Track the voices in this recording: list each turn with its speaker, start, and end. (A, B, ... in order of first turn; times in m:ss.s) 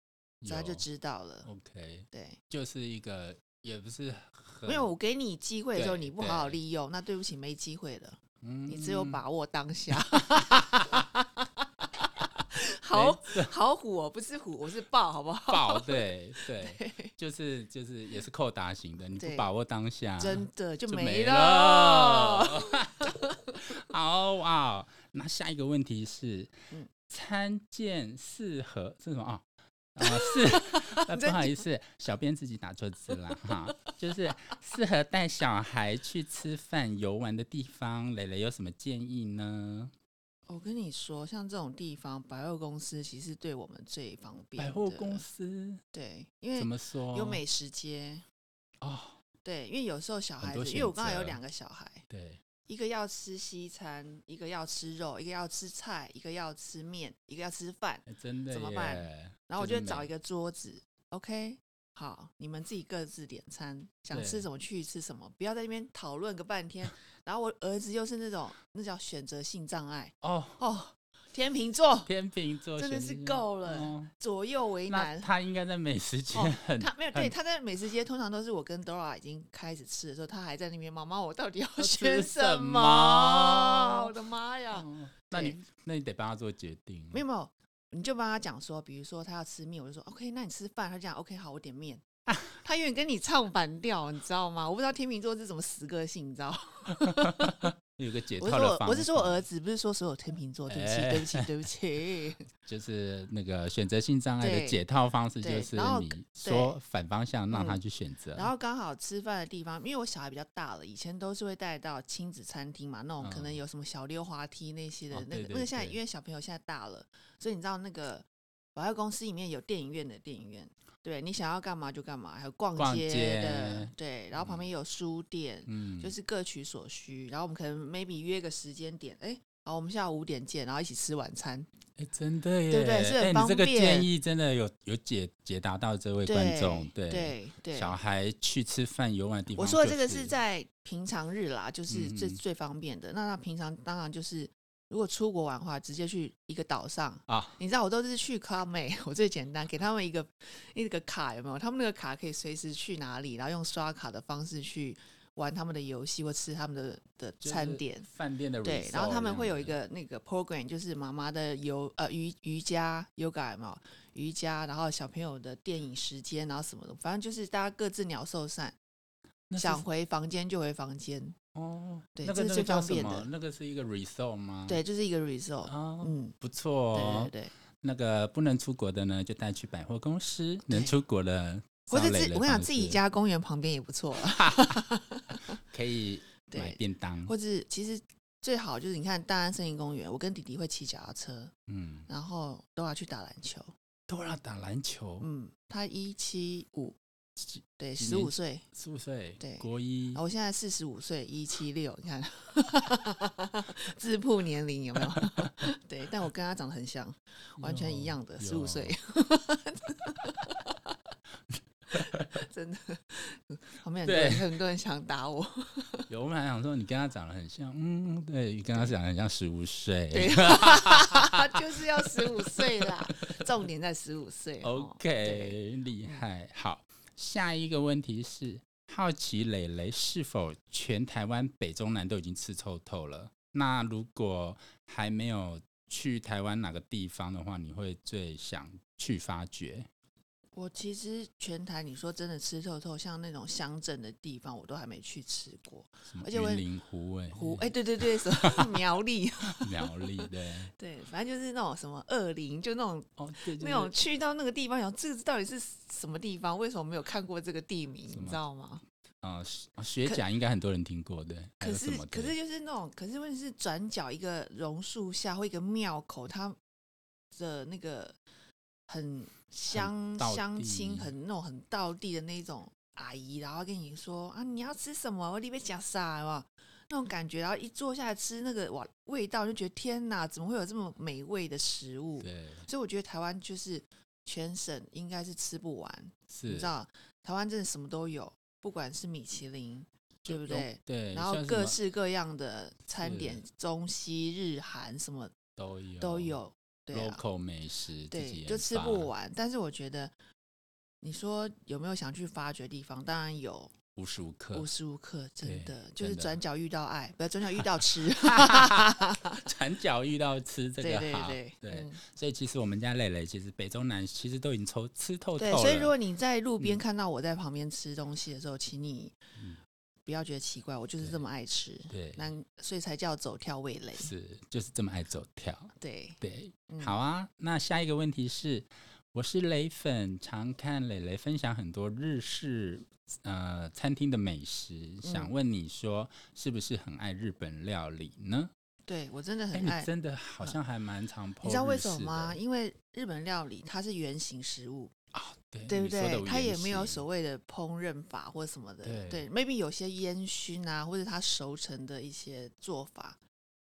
0:00.4-0:00.8 A
0:00.5-0:01.5 B
0:01.4-0:04.9 A
0:02.1-0:02.4 B
0:04.7-0:17.1 B
0:05.8-0:06.6 A
0:08.4-0:09.2 A
0:09.9-0:11.0 A
0:12.9-0:13.6 A
0:15.5-0:39.9 A
0:19.2-0:19.5 B
0:20.2-0:23.7 B
0:30.0-0:31.6 B
0:33.4-0:34.0 B
0:40.5-0:45.2 B
0:44.6-0:45.8 A
0:45.9-0:48.2 B
0:46.6-0:47.4 A
0:48.8-0:49.2 A
0:49.4-0:52.0 B
0:50.4-0:51.4 A
0:52.1-0:52.4 A
0:52.7-1:12.1 B
0:58.1-1:00.1 A
1:04.1-1:04.5 A
1:10.2-1:10.6 A
1:12.1-1:14.1 A
1:12.8-1:15.3 B
1:14.9-1:17.3 A
1:16.3-1:25.6 B
1:21.8-1:24.2 A
1:24.7-1:27.2 A
1:27.1-1:37.7 B
1:36.9-1:39.4 A
1:38.4-1:42.5 B
1:40.7-1:41.5 A
1:42.6-1:48.5 A
1:44.4-1:44.8 B
1:45.4-1:46.8 B
1:47.5-1:47.8 B
1:48.4-2:11.7 B
1:53.2-1:53.6 A
1:55.1-1:56.0 A
2:02.8-2:04.6 A
2:05.7-2:06.1 A
2:12.0-2:20.4 A
2:12.7-2:14.1 B
2:16.3-2:18.0 B
2:19.6-2:38.1 B
2:21.9-2:22.4 A
2:27.3-2:27.6 A
2:37.4-2:39.8 A
2:38.6-2:48.8 B
2:49.5-2:49.8 A
2:49.6-2:51.4 B
2:51.6-2:54.8 A
2:52.2-2:53.3 B
2:54.7-2:56.3 B
2:55.7-3:03.0 A
2:56.9-2:57.5 B
3:00.7-3:01.0 B
3:01.9-3:05.6 B
3:04.2-3:04.8 A
3:05.5-3:07.3 A
3:06.5-3:11.5 B
3:11.7-3:12.1 A
3:12.1-3:13.7 B
3:14.1-3:15.3 A
3:15.2-3:17.0 B
3:17.4-3:20.2 A
3:17.8-3:18.6 B
3:19.4-3:31.0 B
3:25.2-3:25.6 A
3:27.6-3:29.0 A
3:31.9-3:36.1 B
3:31.9-3:32.4 A
3:34.0-3:34.5 A
3:36.1-3:43.5 A
3:40.1-3:46.2 B
3:44.6-3:59.9 A
4:00.6-4:06.6 B
4:06.1-4:08.8 A
4:07.3-4:18.8 B
4:09.5-4:10.7 A
4:13.2-4:14.0 A
4:18.1-4:18.4 A
4:19.2-4:22.4 A
4:21.6-4:26.6 B
4:27.3-4:28.2 B
4:28.9-4:55.4 B
4:29.7-4:31.1 A
4:42.2-4:42.7 A
4:46.3-4:46.7 A
4:50.2-4:51.8 A
4:53.0-4:53.4 A
4:55.6-4:56.4 A
4:56.0-4:57.2 B
4:56.9-4:59.1 A
4:58.1-5:00.2 B
5:01.0-5:03.7 B
5:04.0-5:04.7 A
5:04.5-5:09.5 B
5:05.4-5:06.4 A
5:07.6-5:16.0 A
5:10.8-5:12.0 B
5:15.4-5:19.2 B
5:19.4-5:19.6 A
5:20.1-5:24.1 B
5:21.9-5:22.2 A
5:24.0-5:38.5 A
5:25.8-5:27.0 B
5:35.0-5:35.3 B
5:38.9-5:39.9 B
5:39.5-5:42.4 A
5:41.4-5:44.9 B
5:45.1-5:47.0 A
5:45.7-5:53.2 B
5:48.8-5:49.3 A